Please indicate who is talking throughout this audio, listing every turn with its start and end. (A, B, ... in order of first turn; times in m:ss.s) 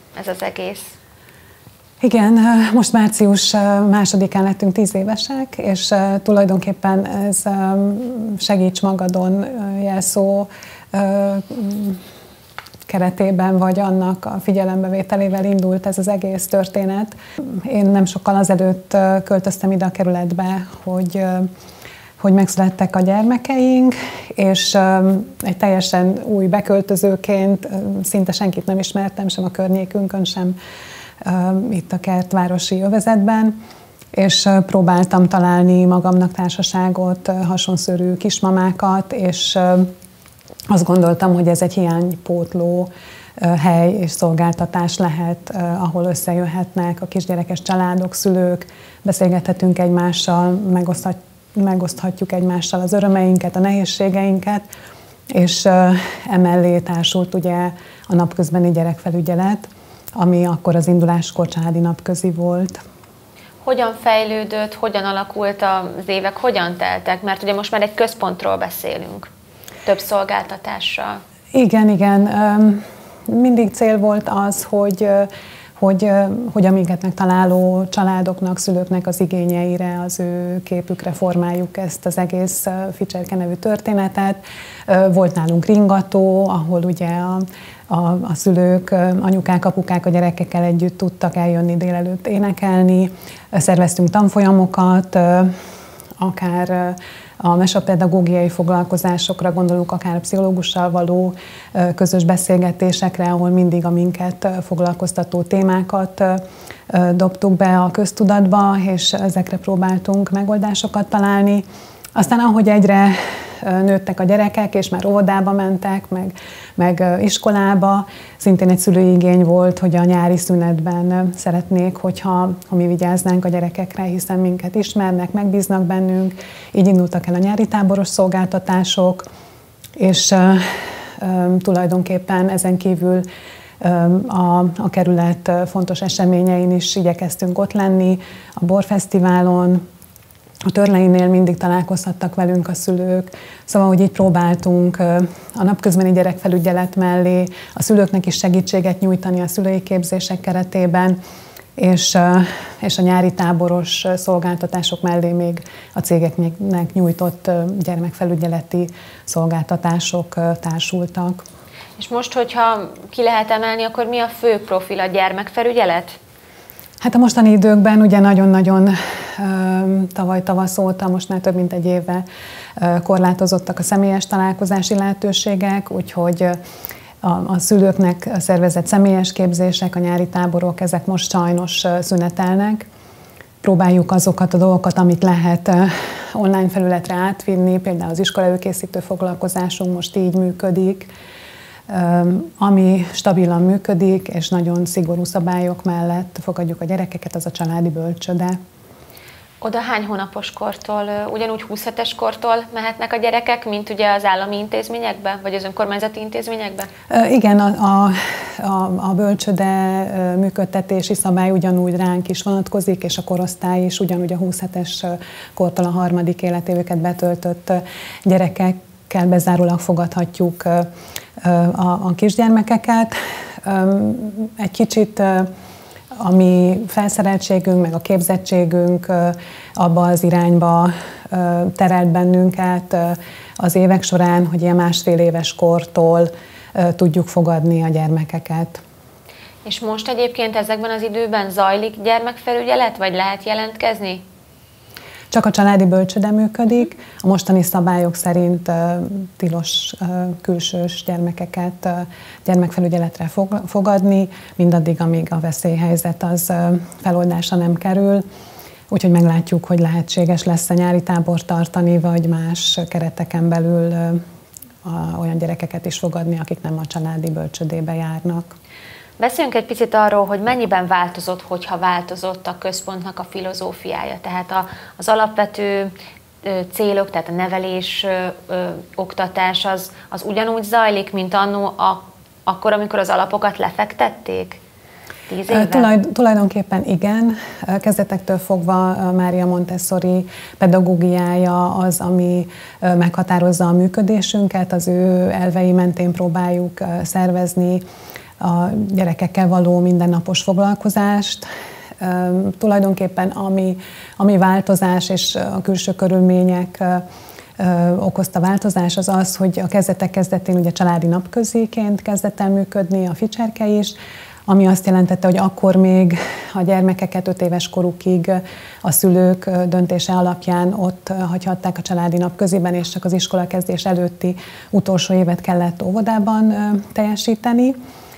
0:00.2-0:00.9 A
0:02.0-0:12.0 B
0:12.9-0:21.5 B
0:22.2-0:30.6 B
0:31.2-0:33.6 B
0:34.1-0:39.9 B
0:40.7-0:54.6 B
0:55.3-1:02.8 B
1:03.6-1:09.3 A
1:09.8-1:11.2 A
1:11.5-1:35.5 B
1:36.2-2:09.2 B
2:10.0-2:13.2 B
2:13.8-2:19.8 B
2:20.7-2:31.2 B
2:31.8-2:41.4 B
2:42.0-2:46.2 A
2:47.0-2:52.2 B
2:52.8-2:56.6 B
2:57.2-3:02.9 B
3:03.6-3:11.1 B
3:11.9-3:18.6 B
3:19.6-3:26.9 A
3:27.1-3:40.9 B
3:41.4-3:45.5 B
3:46.2-3:58.8 B
3:59.6-4:04.2 A
4:05.3-4:18.2 B
4:18.9-4:24.2 B
4:24.8-4:28.5 B
4:29.2-4:35.9 A
4:36.4-4:44.6 A
4:45.3-4:45.9 A
4:45.5-4:57.8 B
4:58.4-5:01.5 B
5:02.0-5:07.0 B
5:07.6-5:13.9 B
5:14.5-5:27.8 B